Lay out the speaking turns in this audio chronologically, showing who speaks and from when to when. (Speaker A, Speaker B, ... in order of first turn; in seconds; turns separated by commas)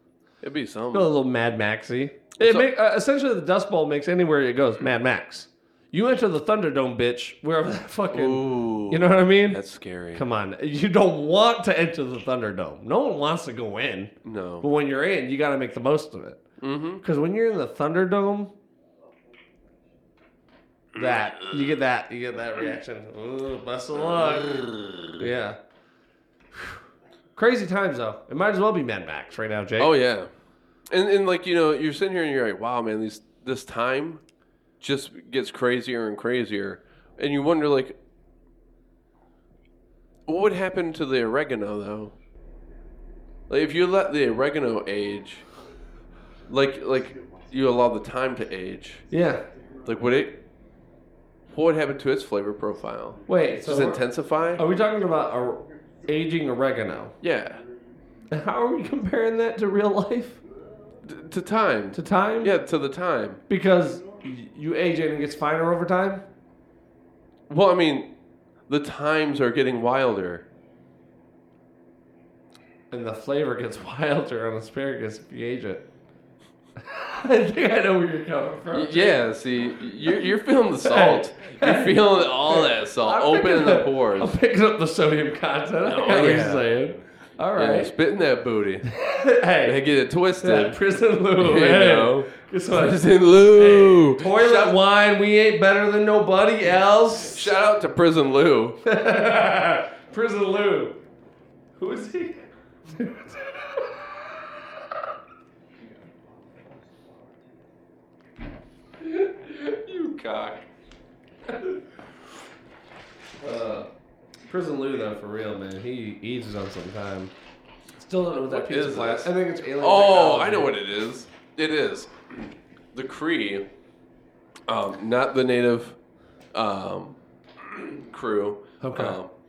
Speaker A: 0.4-1.1, Speaker B: 0.9-9.6, Speaker A: 2.4-2.7, Speaker A: 8.1-10.2, Speaker B: 10.1-16.4, Speaker A: 14.2-14.7, Speaker A: 16.6-17.0, Speaker B: 17.0-18.5, Speaker B: 20.9-25.6, Speaker A: 21.0-21.3, Speaker A: 24.1-25.2, Speaker B: 27.4-29.9, Speaker A: 29.8-30.3, Speaker A: 30.9-34.2, Speaker A: 34.8-38.0, Speaker A: 40.3-42.1, Speaker A: 43.5-45.5, Speaker A: 46.5-49.1, Speaker B: 49.1-49.5, Speaker A: 49.8-50.4, Speaker A: 51.5-54.7, Speaker B: 53.3-57.2, Speaker A: 57.2-57.6, Speaker B: 58.3-60.4, Speaker A: 61.0-63.4, Speaker B: 61.9-62.6, Speaker B: 63.5-66.3, Speaker A: 67.5-68.1, Speaker A: 68.7-70.5, Speaker B: 72.9-75.9, Speaker B: 76.8-79.3, Speaker A: 78.7-84.4, Speaker B: 80.8-88.0, Speaker A: 85.8-86.7, Speaker A: 87.5-88.9, Speaker B: 88.8-89.8, Speaker A: 89.6-90.8, Speaker B: 90.4-97.5, Speaker A: 91.4-94.8, Speaker A: 97.3-98.8, Speaker B: 98.8-101.0, Speaker B: 101.8-104.0, Speaker A: 109.0-110.7, Speaker B: 111.5-111.8, Speaker B: 113.4-113.9, Speaker B: 114.5-117.3, Speaker B: 118.0-120.7, Speaker A: 118.4-123.7, Speaker A: 124.7-126.0, Speaker A: 126.5-129.3, Speaker B: 128.8-129.2